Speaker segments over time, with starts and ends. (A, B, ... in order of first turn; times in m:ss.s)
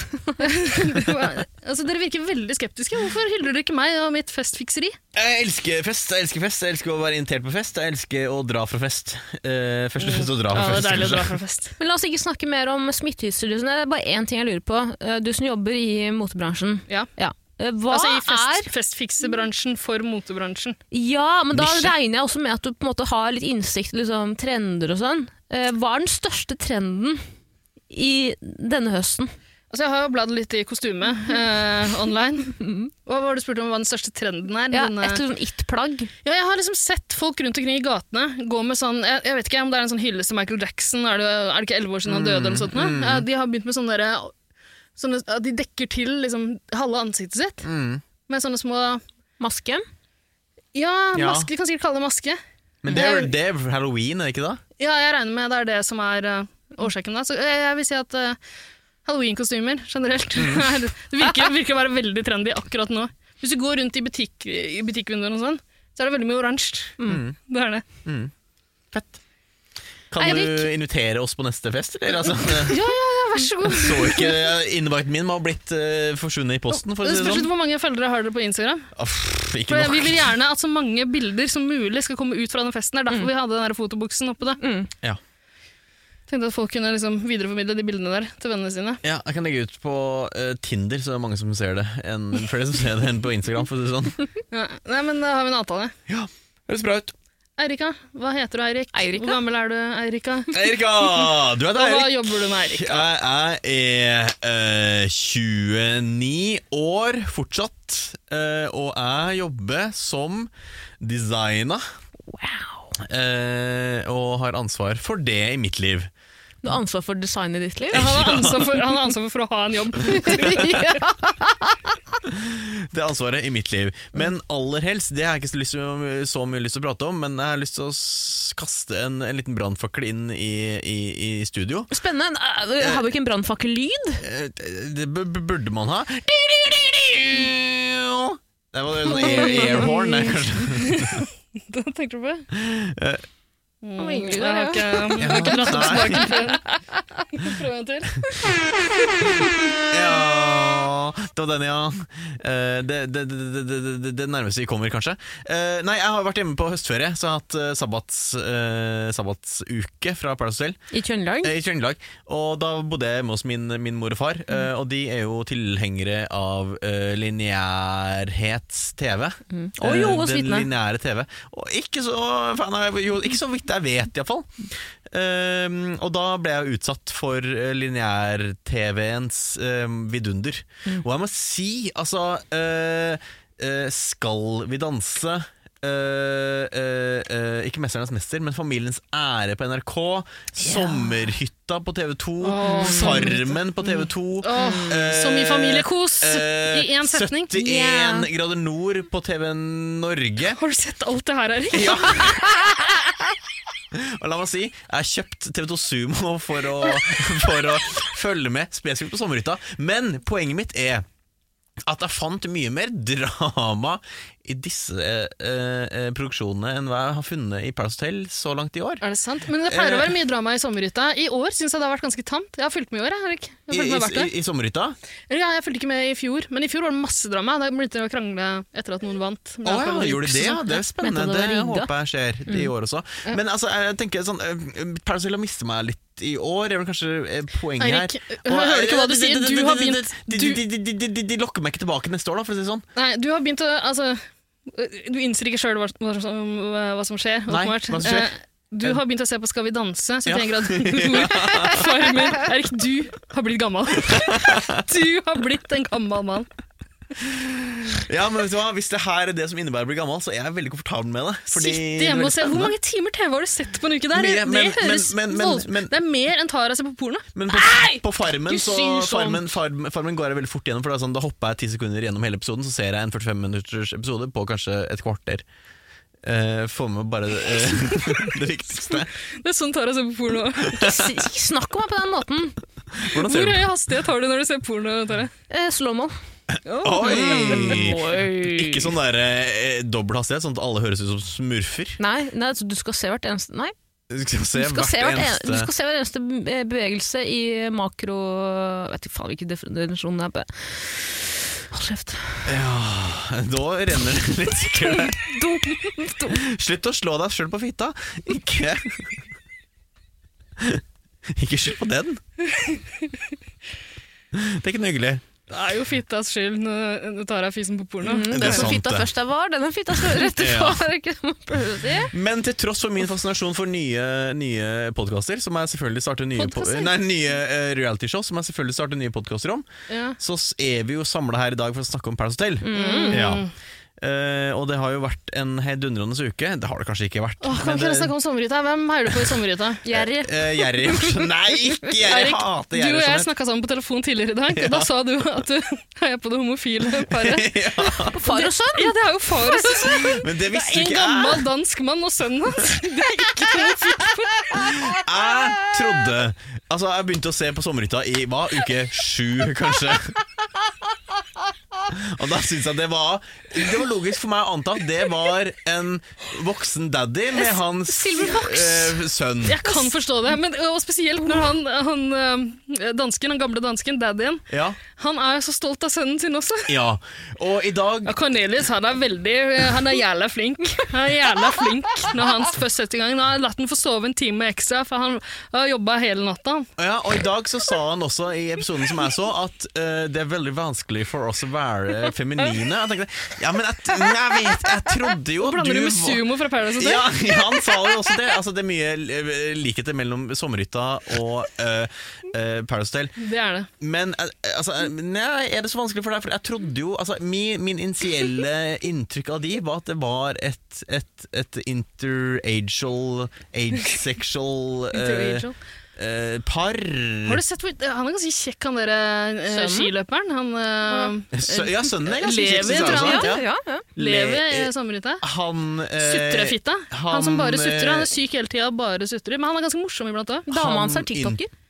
0:00.4-0:05.0 A
0:05.1-0:11.4 B
0:10.0-0:11.8 A
0:11.8-0:18.7 C
0:17.9-0:20.8 A
0:20.9-0:27.2 C
0:21.5-0:21.9 B
0:27.9-0:29.3 C
0:29.7-0:35.2 A
0:32.6-0:32.9 C
0:34.7-0:36.1 C
0:36.2-0:44.3 A
0:42.0-0:43.2 B
0:45.0-0:47.6 A
0:47.6-0:48.0 B
0:48.3-0:49.0 A
0:49.4-0:49.8 C
0:50.7-0:53.3 A
0:51.1-0:51.5 B
0:52.8-0:54.6 B
0:54.8-0:58.4 A
0:59.0-1:07.8 A
1:00.4-1:00.7 B
1:07.0-1:07.2 C
1:07.1-1:07.4 B
1:08.0-1:08.3 B
1:08.9-1:09.2 B
1:10.1-1:12.8 B
1:10.2-1:10.7 C
1:12.6-1:14.5 A
1:13.6-1:17.5 B
1:16.7-1:18.9 A
1:18.9-1:20.3 B
1:19.7-1:24.6 A
1:24.6-1:24.9 C
1:26.3-1:29.0 A
1:29.0-1:34.2 B
1:34.5-1:35.9 A
1:36.1-1:37.1 B
1:37.6-1:43.1 A
1:38.9-1:39.4 C
1:40.5-1:51.8 B
1:52.3-1:52.9 C
1:53.0-1:56.1 B
1:56.6-1:58.4 C
1:57.9-2:00.8 A
1:57.9-1:58.7 B
2:00.1-2:01.8 C
2:02.2-2:11.9 B
2:11.9-2:14.2 C
2:14.2-2:21.2 B
2:19.1-2:22.5 A
2:22.5-2:23.2 B
2:23.8-2:28.5 A
2:24.0-2:26.6 C
2:25.2-2:26.3 B
2:29.9-2:40.8 B
2:40.9-2:41.5 C
2:41.4-3:20.6 B
2:49.5-2:50.6 C
3:10.6-3:11.1 C
3:12.4-3:13.6 A
3:12.6-3:13.4 C
3:14.4-3:17.5 A
3:14.5-3:15.0 C
3:17.5-3:18.3 C
3:20.5-3:22.4 A
3:21.7-3:22.9 B
3:23.9-3:31.0 B
3:31.8-3:39.0 B
3:39.0-3:44.3 A
3:39.7-3:40.1 B
3:43.7-3:45.0 B
3:45.3-3:50.6 A
3:49.6-4:02.8 B
3:50.4-3:51.9 C
3:57.8-4:00.6 A
4:03.0-4:16.5 A
4:07.5-4:08.3 B
4:10.2-4:12.1 B
4:14.0-4:14.8 B
4:17.3-4:22.7 B
4:21.5-4:27.3 A
4:24.1-4:25.9 B
4:27.3-4:35.4 B
4:27.5-4:29.5 C
4:36.2-4:39.1 B
4:39.4-4:40.8 A
4:40.7-4:41.0 B
4:40.7-4:42.6 C
4:42.9-4:43.6 B
4:43.2-4:45.3 A
4:45.5-4:46.1 C
4:46.5-4:52.0 B
4:46.7-4:47.9 A
4:47.0-4:48.9 C
4:52.0-4:53.7 C
4:54.1-4:55.7 B
4:54.6-5:02.5 C
5:02.4-5:05.3 B
5:05.2-5:06.4 C
5:06.3-5:09.2 B
5:10.6-5:12.2 B
5:12.5-5:13.1 A
5:14.3-5:15.2 B
5:15.5-5:18.7 A
5:18.0-5:22.1 C
5:18.3-5:19.1 B
5:20.0-5:20.8 B
5:22.1-5:29.6 B
5:26.4-5:26.9 A
5:29.9-5:30.2 A
5:30.2-5:33.4 B
5:32.6-5:33.3 C
5:32.7-5:33.5 A
5:34.0-5:38.1 B
5:37.4-5:39.8 A
5:39.8-5:41.1 C
5:39.9-5:43.3 B
5:42.1-5:47.5 A
5:44.5-5:44.9 B
5:47.0-5:48.2 B
5:48.1-5:48.9 C
5:48.2-5:54.8 A
5:49.8-5:51.4 B
5:54.6-6:00.2 B
6:01.9-6:09.6 B
6:07.9-6:09.0 C
6:09.4-6:16.7 A
6:14.5-6:14.8 B
6:16.7-6:18.1 B
6:18.0-6:26.7 A
6:26.8-6:36.2 B
6:35.4-6:37.9 A
6:36.8-6:43.2 B
6:43.2-6:43.7 A
6:43.8-6:57.4 B
6:54.9-6:55.5 A
6:57.2-7:03.4 A
6:59.5-6:59.9 C
7:00.9-7:01.1 C
7:01.3-7:03.4 B
7:02.6-7:03.8 C
7:04.0-7:08.1 B
7:04.0-7:05.2 A
7:06.0-7:10.5 A
7:10.5-7:11.5 C
7:10.5-7:11.4 B